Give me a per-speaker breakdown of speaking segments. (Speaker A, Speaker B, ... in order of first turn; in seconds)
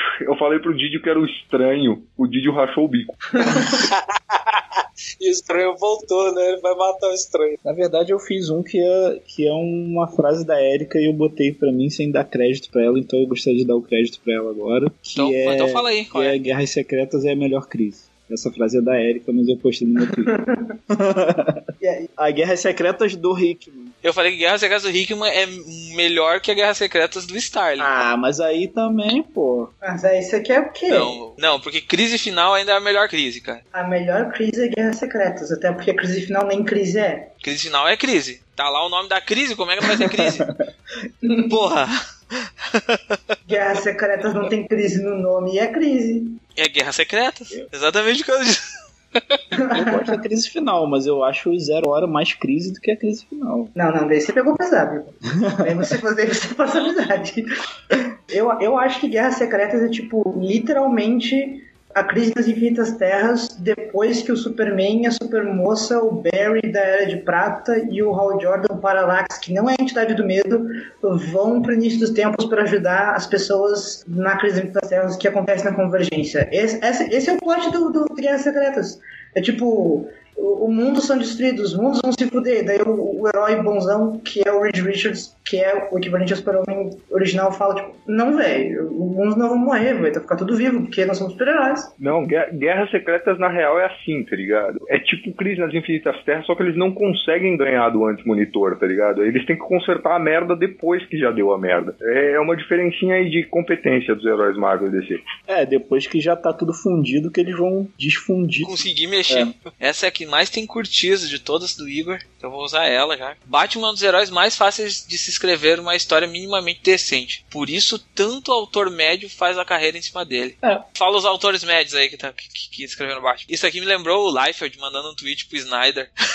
Speaker A: 0.2-3.2, 92.0-105.2
Speaker B: 3.4-3.7, 20.2-20.7, 21.8-22.1, 29.8-31.2, 33.7-37.3, 41.2-41.5, 43.5-46.4, 49.6-50.1, 53.7-57.5, 58.3-91.9
Speaker C: 3.5-7.6
Speaker D: 7.6-20.3, 20.9-21.6, 22.2-23.9, 27.8-29.7, 39.8-40.5, 49.7-53.7, 55.4-55.9, 105.5-109.5
Speaker E: 15.1-16.4, 24.0-27.9, 30.9-33.6, 37.4-40.5, 41.5-43.2, 46.5-48.6, 49.1-49.4, 108.6-126.1